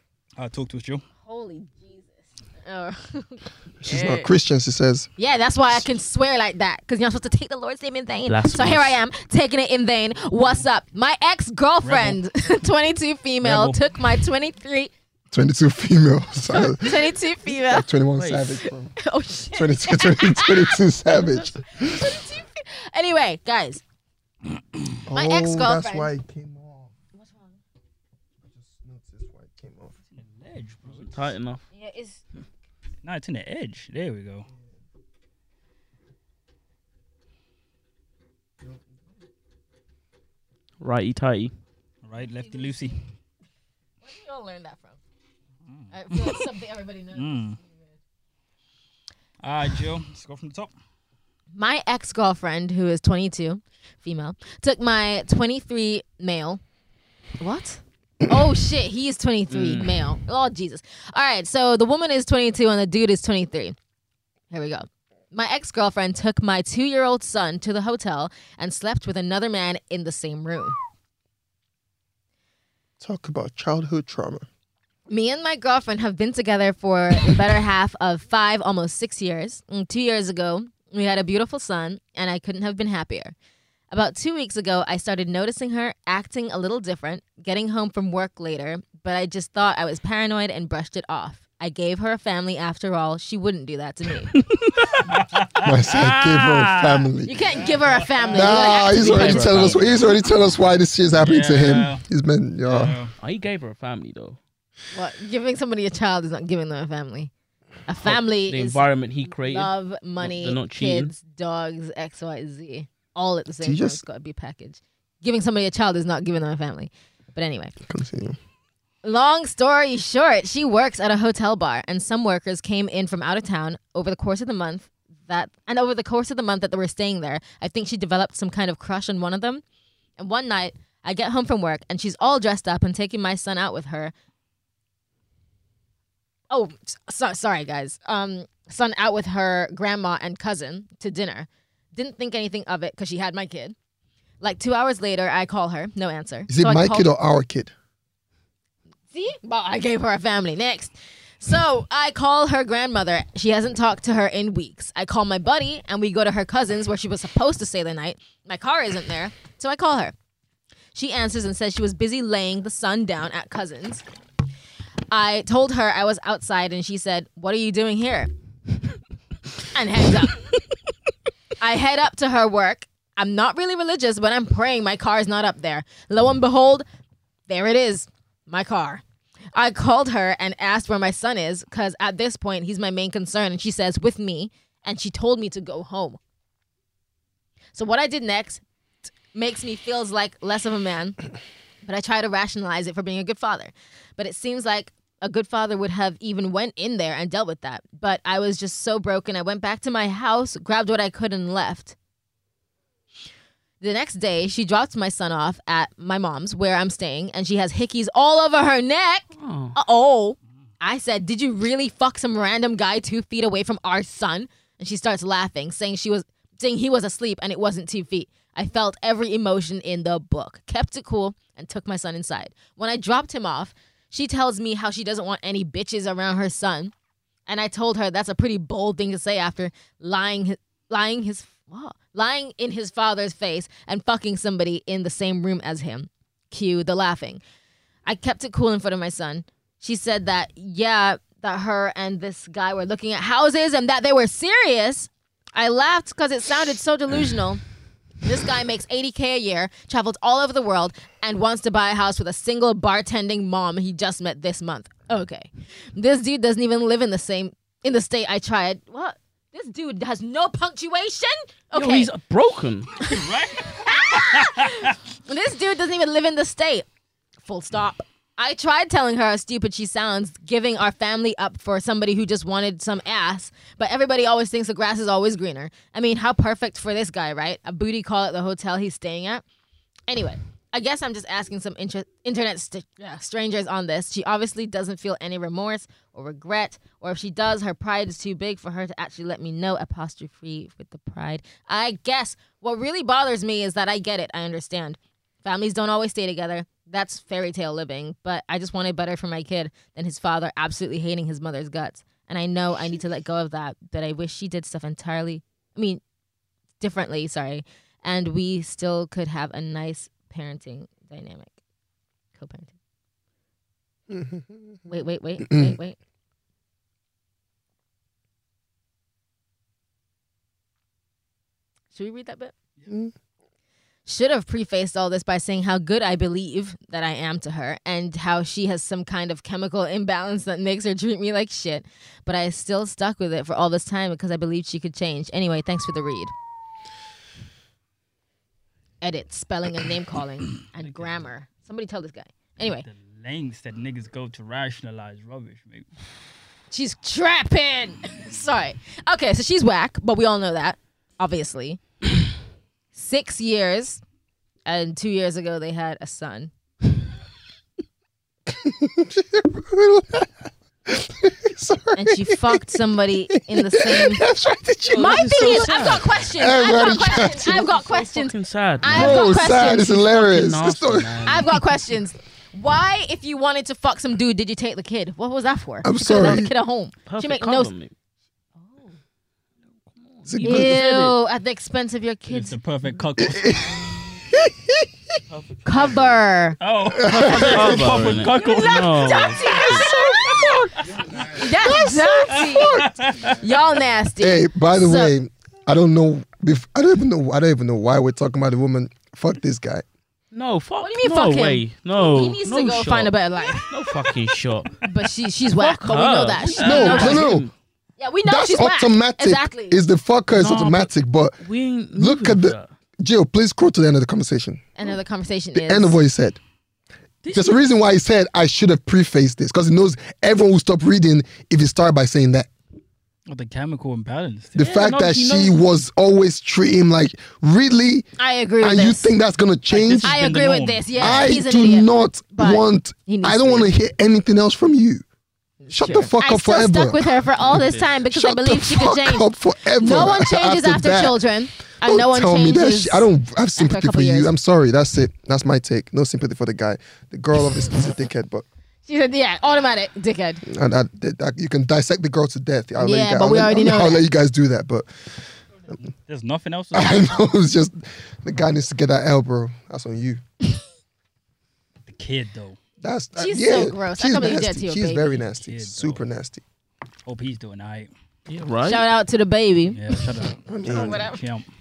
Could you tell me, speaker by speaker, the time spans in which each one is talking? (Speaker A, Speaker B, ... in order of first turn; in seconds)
Speaker A: 0.4-1.0, 11.8-12.2, 13.4-13.8, 30.1-31.3, 33.0-34.5, 42.0-42.9, 45.7-46.5, 47.1-47.6, 49.4-50.7, 94.9-98.8, 101.2-102.0, 102.7-103.1, 263.0-264.5, 340.8-341.2, 342.7-345.9, 382.3-383.6, 386.6-391.1, 392.3-393.4, 403.6-404.4, 406.6-407.2, 423.3-424.6, 429.7-431.3, 455.9-457.2, 461.9-462.6, 465.4-466.1, 467.1-467.9, 469.7-471.5
Speaker B: 1.2-4.3, 5.2-14.9, 16.5-17.9, 19.0-20.8, 21.7-23.8, 25.1-26.1, 27.1-27.6, 31.7-32.2, 42.4-42.9, 44.0-45.0, 45.9-47.8, 51.5-56.6, 57.4-63.8, 64.5-70.8, 75.1-83.3, 83.9-94.3, 97.2-99.8, 104.9-107.3, 107.9-108.8, 109.3-117.7, 119.0-129.6, 130.2-134.1, 136.5-143.8, 144.4-147.1, 149.1-160.2, 160.9-164.0, 165.1-168.3, 169.7-170.3, 171.6-176.8, 177.5-179.0, 179.5-186.2, 187.7-188.6, 189.3-191.2, 191.8-201.9, 203.8-226.9, 227.5-237.4, 238.1-247.6, 248.2-262.1, 263.1-266.9, 267.4-279.4, 280.1-306.0, 306.8-311.6, 312.4-312.7, 314.9-316.0, 321.9-322.5, 324.1-336.3, 339.0-342.9, 346.7-351.8, 352.9-354.0, 354.7-356.5, 361.9-364.2, 364.9-370.1, 371.2-377.7, 378.6-378.9, 380.4-382.6, 385.6-386.6, 388.3-390.5, 391.3-392.8, 393.4-395.1, 400.8-403.7, 404.8-407.2, 408.0-409.8, 414.8-416.0, 428.2-429.1, 430.0-433.7, 435.6-444.3, 448.9-450.4, 452.8-454.1, 463.2-465.2, 468.6-469.9, 470.6-471.2
Speaker C: 3.8-5.1, 15.3-18.9, 19.5-21.6, 25.1-26.9, 28.4-29.9, 73.0-74.5, 95.6-97.3, 98.3-103.0, 113.6-114.0, 117.8-118.4, 146.5-147.7, 314.1-314.8, 315.5-315.8, 358.5-360.3, 360.9-362.8, 363.3-367.6, 368.8-371.5, 375.8-376.5, 380.3-380.8, 383.2-385.2, 386.9-388.1, 389.5-390.8, 391.3-392.9, 394.2-399.9, 406.6-407.5, 408.3-411.4, 412.0-414.6, 415.6-416.4, 417.3-422.5, 424.6-428.1, 428.6-430.2, 431.0-435.0, 435.7-437.0, 438.1-441.2, 441.8-448.4, 450.5-454.9, 456.7-460.2, 462.8-466.4, 470.5-471.1
Speaker D: 8.3-9.0, 18.2-18.6, 31.1-31.6, 40.8-41.5, 59.5-60.0, 94.3-95.1, 95.8-96.8, 98.7-100.0, 103.2-104.4, 108.0-111.1, 209.3-209.8, 261.7-263.1, 364.9-371.6, 376.1-376.5, 377.1-377.9, 379.9-381.2, 385.3-386.2, 387.2-390.4, 400.3-404.8, 405.6-407.5, 410.3-410.9, 411.4-412.7, 417.2-417.6, 424.6-425.6, 437.5-437.9, 468.3-468.9